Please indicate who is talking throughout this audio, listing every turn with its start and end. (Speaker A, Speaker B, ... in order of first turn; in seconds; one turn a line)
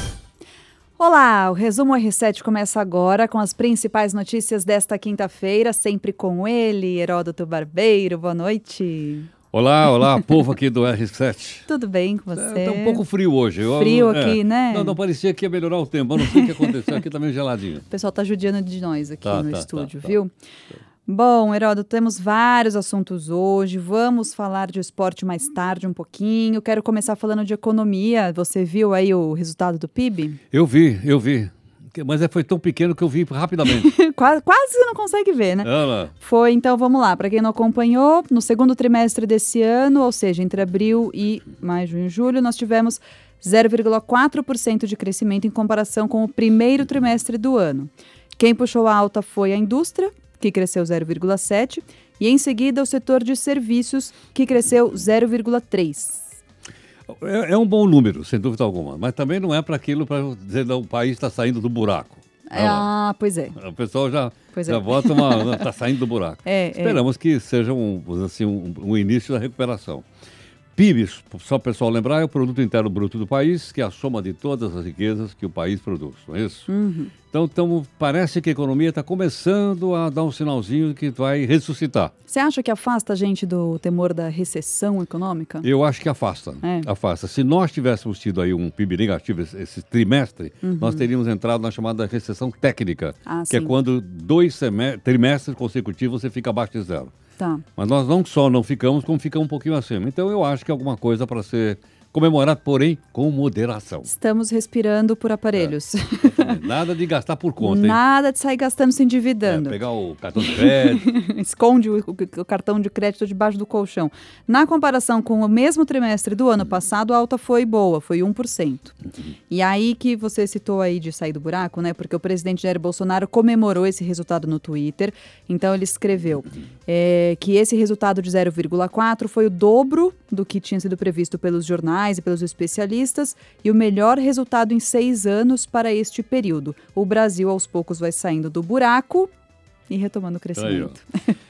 Speaker A: 1.0-9.3
Speaker B: 9.5-11.7
Speaker A: 11.7-13.0
Speaker B: 12.3-17.9
Speaker A: 13.6-15.0
Speaker A: 16.2-16.7
Speaker A: 17.9-20.3
Speaker B: 19.2-20.2
Speaker A: 21.1-30.4
Speaker B: 30.5-33.9
Speaker A: 33.6-56.2
Speaker B: 35.6-36.1
Speaker B: 57.1-62.9
Speaker A: 62.5-63.6
Speaker B: 63.5-70.0
Speaker A: 64.5-65.7
Speaker A: 66.4-67.0
Speaker B: 70.8-76.7
Speaker A: 76.7-77.1
Speaker B: 77.3-82.1
Speaker A: 82.3-85.7
Speaker B: 85.6-97.1
Speaker A: 86.6-86.9
Speaker A: 90.6-91.1
Speaker A: 93.2-93.7
Speaker A: 97.4-97.6
Speaker B: 97.8-104.1
Speaker A: 104.0-106.6
Speaker B: 105.5-108.0
Speaker A: 107.6-109.8
Speaker B: 109.4-111.1
Speaker A: 110.4-119.0
Speaker A: 119.5-139.3
Speaker A: 139.9-141.3
Speaker B: 140.6-141.0